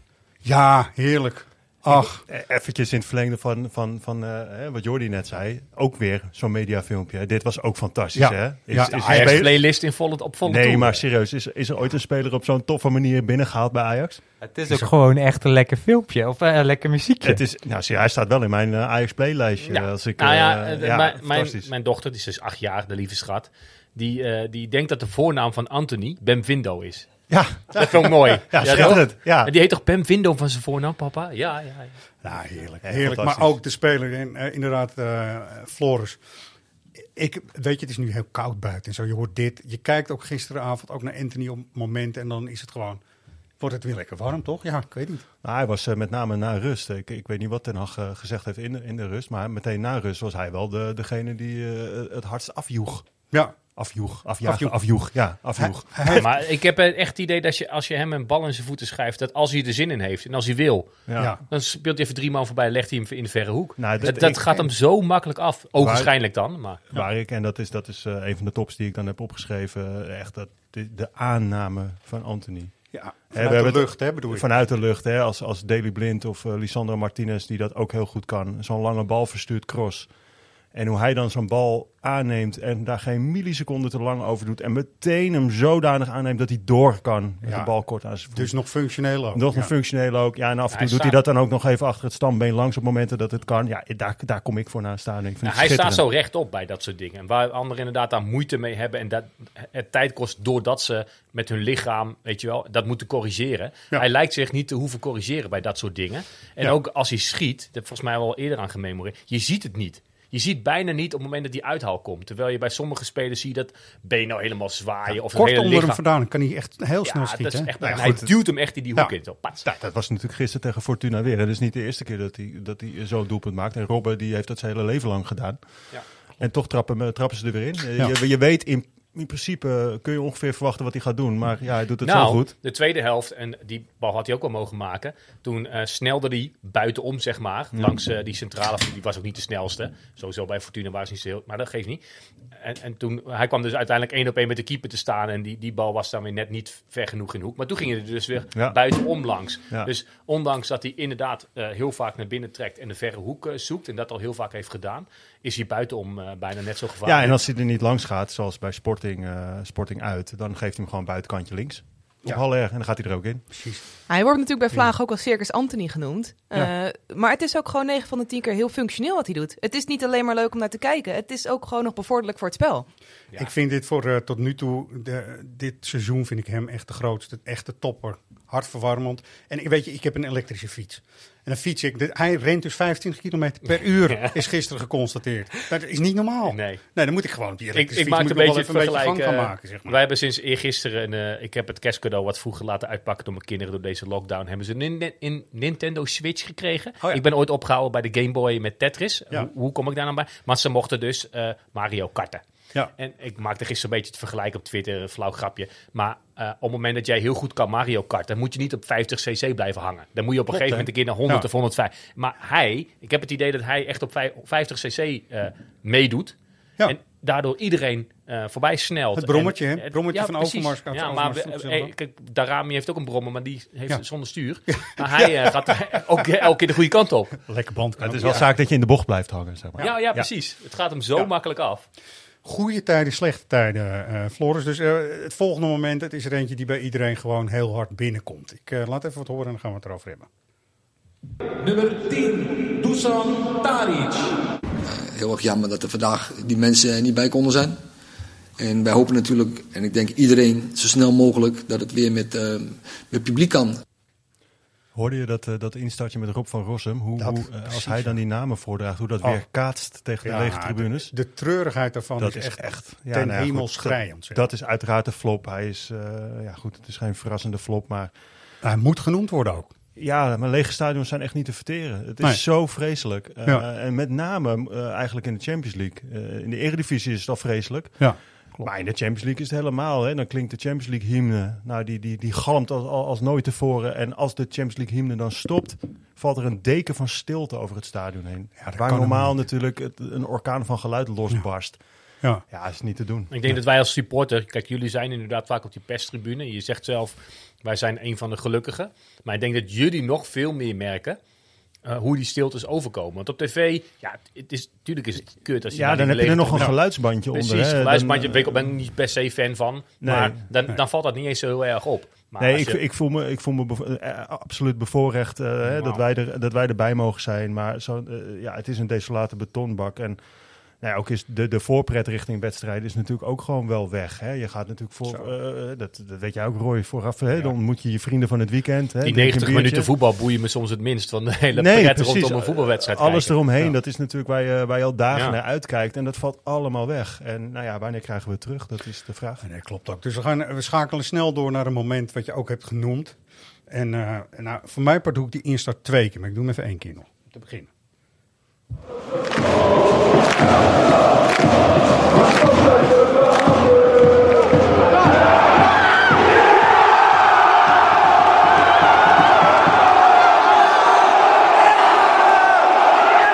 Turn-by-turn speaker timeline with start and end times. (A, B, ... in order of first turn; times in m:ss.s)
0:00.4-0:02.2 A
0:01.9-0:09.8 B
0:08.2-0:09.4 A
0:09.1-0:11.0 C
0:10.4-0:14.2 B
0:14.4-0:17.4 D
0:14.7-0:14.9 A
0:17.2-0:21.7 B
0:19.7-0:32.0 C
0:27.3-0:27.8 B
0:28.5-0:29.5 B
0:28.5-0:29.0 A
0:32.2-0:36.2 A
0:32.8-0:33.5 B
0:37.2-0:43.0 A
0:43.6-0:45.2 A
0:45.4-0:53.1 B
0:53.3-0:56.3 A
0:53.8-0:56.2 B
0:56.2-1:06.8 C
1:01.1-1:01.4 B
1:03.8-1:04.6 B
1:04.2-1:04.5 A
1:05.8-1:06.1 B
1:06.9-1:20.1 B
1:12.9-1:14.5 A
1:20.7-1:28.5 B
1:27.4-1:27.7 A
1:28.3-1:29.7 A
1:29.4-1:36.0 B
1:30.7-1:31.2 C
1:35.4-1:56.0 C
1:55.3-1:58.2 A
1:57.0-1:59.6 C
1:57.8-1:58.2 B
1:59.8-2:12.5 B
2:12.0-2:22.0 C
2:22.6-2:37.4 C
2:37.0-2:43.4 B
2:43.5-2:43.8 A
2:44.1-2:52.9 E
2:53.3-3:10.0 A
3:04.1-3:04.4 C
3:06.4-3:06.8 C
3:07.7-3:22.4 C
3:23.0-3:47.4 C
3:30.5-3:31.4 A
3:39.2-3:41.9 A
3:44.7-3:45.7 A
3:47.5-3:48.4 A
3:48.0-3:50.3 B
3:49.8-3:51.9 C
3:52.4-4:00.3 A
4:01.6-4:04.3 F
4:04.9-4:07.8 G
4:08.6-4:13.8 G
4:14.9-4:21.1 B
4:17.2-4:18.2 A
4:20.2-4:24.5 A
4:22.2-4:28.1 B
4:28.6-4:29.7 A
4:30.0-4:51.8 B
4:38.0-4:38.7 A
4:48.6-4:49.4 A
4:52.5-4:53.3 B
4:53.3-5:01.2 C
5:01.9-5:06.7 C
5:05.7-5:08.6 B
5:07.3-5:12.8 C
5:10.0-5:10.4 B
5:12.4-5:20.2 B
5:15.7-5:16.0 C
5:20.8-5:29.9 B
5:29.0-5:33.4 C
5:31.6-5:39.4 B
5:39.4-5:43.2 A
5:43.7-5:47.7 A